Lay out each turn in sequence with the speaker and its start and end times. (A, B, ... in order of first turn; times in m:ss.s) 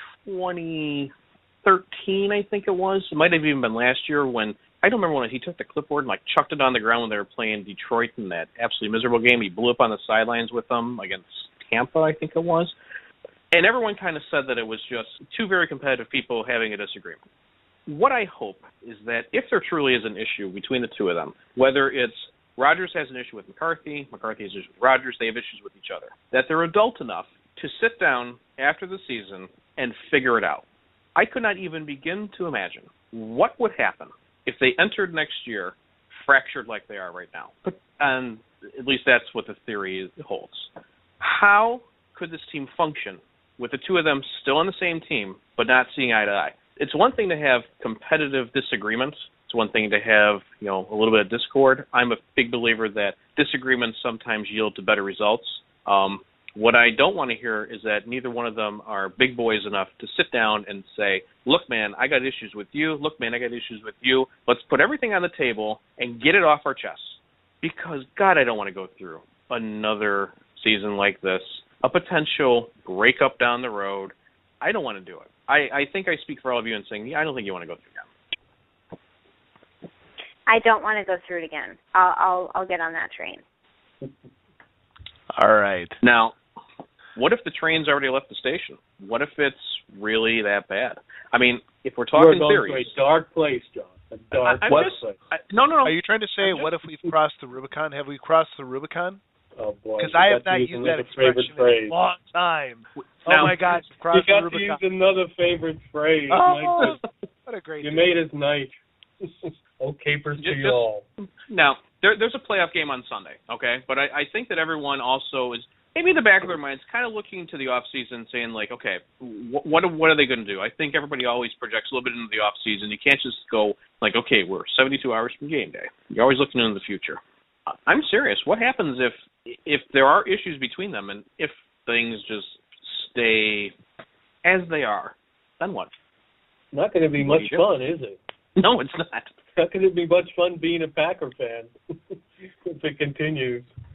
0:00.2-0:01.1 A
0:01.6-0:12.7 A
0:13.5-0:17.2 A
0:17.9-0:30.6 A
0:31.2-1:18.1 A
1:20.5-1:23.4 B
1:25.3-1:26.0 C
1:26.0-1:26.4 A
1:27.2-1:32.9 A
1:32.1-1:35.2 D
1:34.4-1:36.7 A
1:35.8-1:39.2 C
1:39.6-1:41.9 D
1:40.0-1:44.8 C
1:43.0-1:43.6 A
1:44.1-1:47.0 D
1:46.3-1:48.1 C
1:47.8-1:51.0 D
1:50.4-2:07.2 A
2:07.7-2:13.7 A
2:14.4-2:15.9 A
2:16.7-2:18.2 D
2:17.2-2:17.6 A
2:18.6-2:19.3 A
2:19.6-2:21.8 D
2:22.7-2:23.7 D